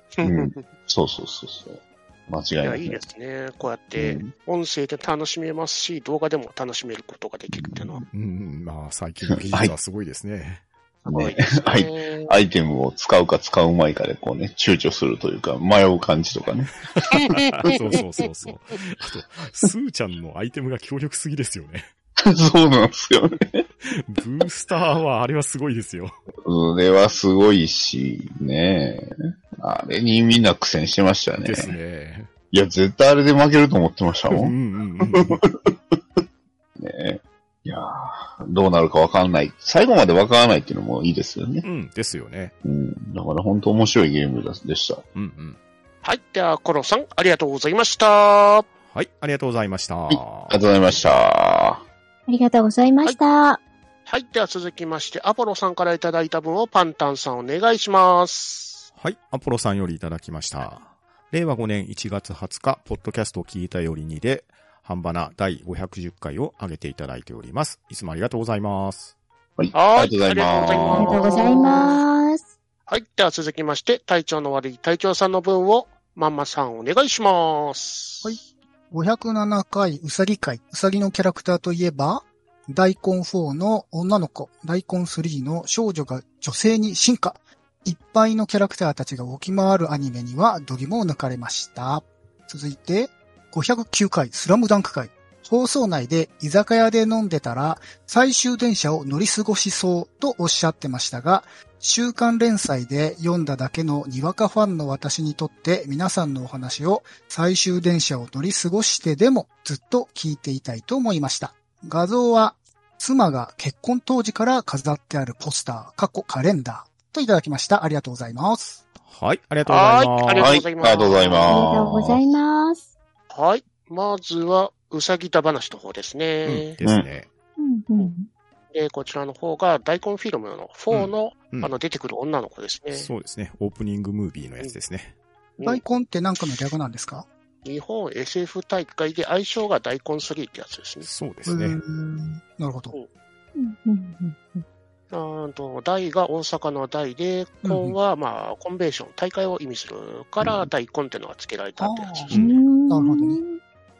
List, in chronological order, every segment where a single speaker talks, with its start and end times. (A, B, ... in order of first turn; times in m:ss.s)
0:00.2-0:00.6 A
0:00.2-0:03.0 B
0:02.6-0:08.0 A
0:04.0-0:04.3 B
0:07.5-0:08.1 B
0:08.1-0:10.6 C
0:09.3-0:09.7 B
0:11.0-0:12.3 A
0:11.1-0:16.7 B
0:16.9-0:21.9 C
0:17.1-0:18.0 A
0:22.2-0:23.6 B
0:23.8-0:26.1 C
0:26.4-0:31.7 B
0:31.4-0:32.3 C
0:32.5-0:34.5 B
0:34.3-0:35.4 C
0:35.1-0:35.7 B
0:36.8-0:41.6 B
0:41.6-0:42.5 C
0:42.6-0:45.0 B
0:45.1-0:45.6 C
0:46.0-0:48.6 A
0:48.9-0:50.6 C
0:50.1-0:51.8 B
0:52.3-0:53.6 D
0:54.1-0:58.8 A
0:59.0-1:09.1 C
1:09.6-1:11.7 B
1:09.7-1:12.0 A
1:10.8-1:12.4 D
1:12.9-1:18.4 A
1:18.2-1:58.8 E
1:59.0-2:00.6 C
1:59.6-2:01.6 A
2:00.4-2:02.3 B
2:01.5-2:02.9 D
2:03.3-2:06.7 A
2:06.4-2:07.3 C
2:06.8-2:07.1 B
2:07.6-2:08.3 D
2:08.7-2:13.1 A
2:10.9-2:11.7 C
2:12.9-2:15.1 C
2:15.6-2:17.3 E
2:17.6-2:21.1 A
2:21.0-2:21.8 C
2:21.4-2:22.9 E
2:23.6-2:24.6 D
2:25.1-2:32.4 A
2:27.6-2:28.0 E
2:30.4-2:30.7 B
2:31.8-2:33.4 E
2:32.3-2:32.6 C
2:32.3-2:33.6 D